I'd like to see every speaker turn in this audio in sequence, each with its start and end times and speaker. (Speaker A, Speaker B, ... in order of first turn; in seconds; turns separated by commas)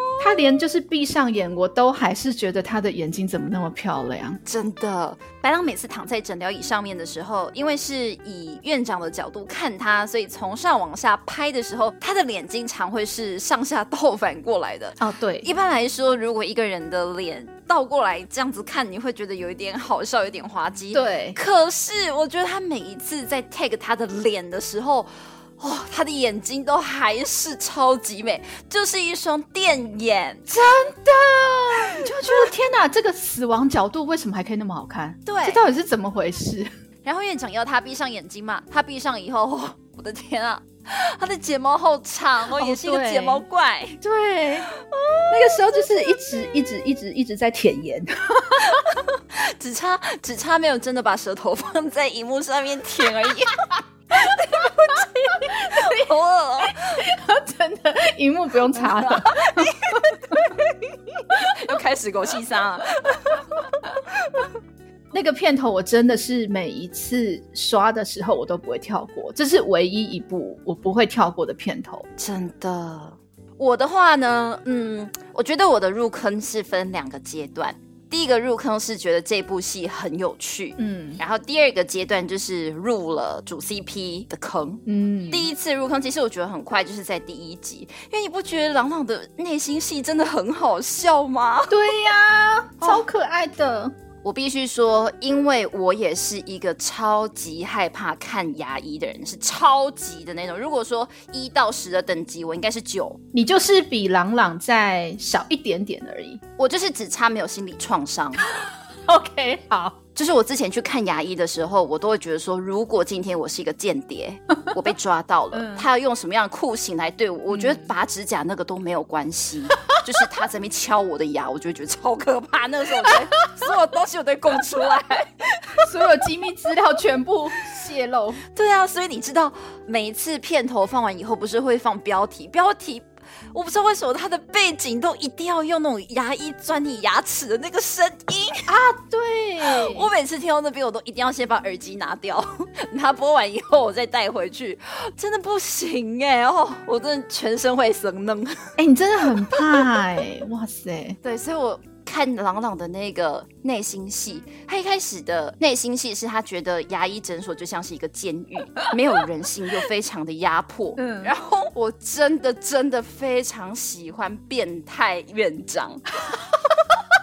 Speaker A: 0.2-4.4, Speaker B: 4.4-30.5, Speaker A: 15.0-15.5, Speaker A: 20.9-21.4, Speaker A: 30.5-36.7, Speaker B: 35.2-35.6, Speaker B: 37.0-44.0, Speaker A: 42.5-43.4, Speaker A: 44.0-44.7, Speaker B: 44.9-45.5, Speaker A: 45.3-48.8, Speaker B: 49.3-53.6, Speaker A: 54.1-56.1, Speaker B: 54.2-57.0, Speaker A: 56.6-60.4, Speaker B: 58.8-60.6, Speaker B: 61.3-63.4, Speaker A: 65.1-72.0, Speaker B: 72.2-91.8, Speaker A: 80.8-81.2, Speaker A: 84.8-85.5, Speaker A: 91.7-93.9, Speaker B: 94.2-103.2, Speaker A: 103.3-106.4, Speaker B: 106.6-108.5, Speaker A: 108.6-110.0, Speaker B: 110.1-125.3, Speaker A: 115.5-115.9, Speaker A: 117.5-117.9, Speaker A: 125.7-128.4, Speaker B: 128.5-138.7, Speaker A: 138.7-140.1, Speaker B: 139.6-148.7, Speaker A: 148.8-151.2, Speaker B: 151.2-166.0, Speaker A: 161.0-161.3